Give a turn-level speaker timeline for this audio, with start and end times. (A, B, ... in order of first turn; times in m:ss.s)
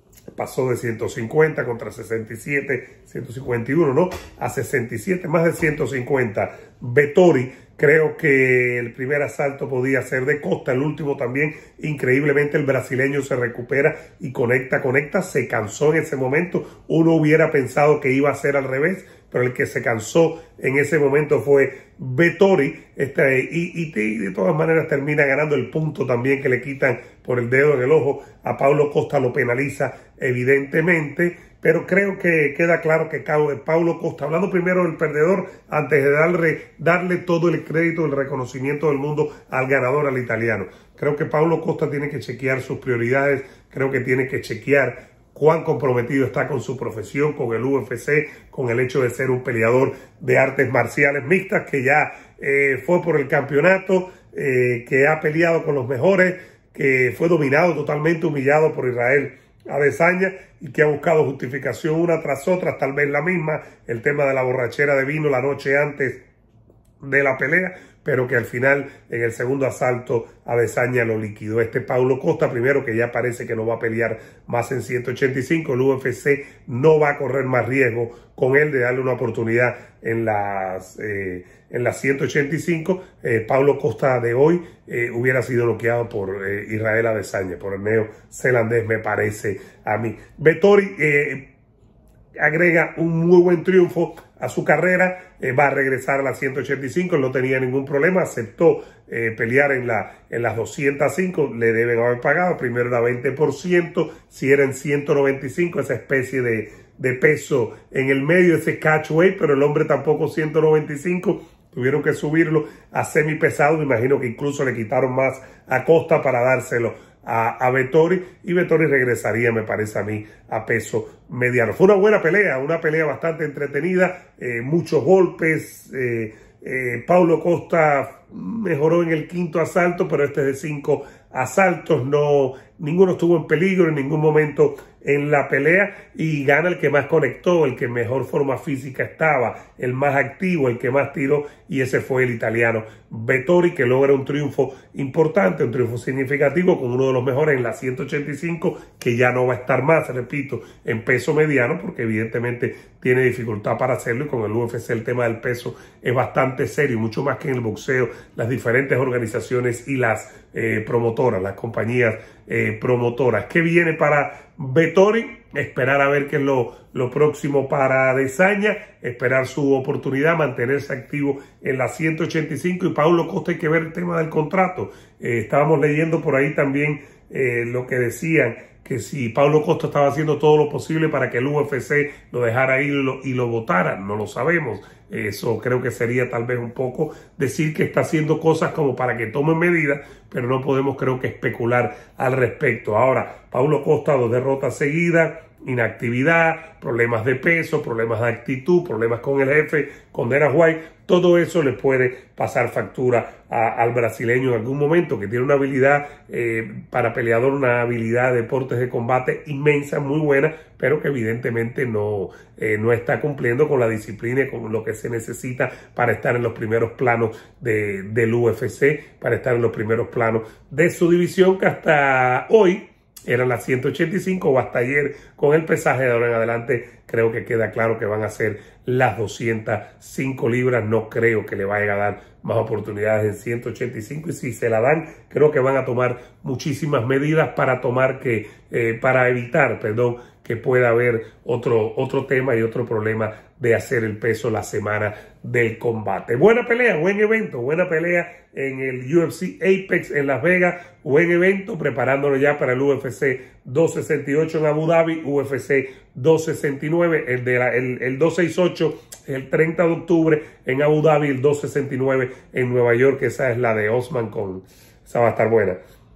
0:00.3-1:06.2 A
1:07.0-1:31.5 A
1:32.4-4:25.8 A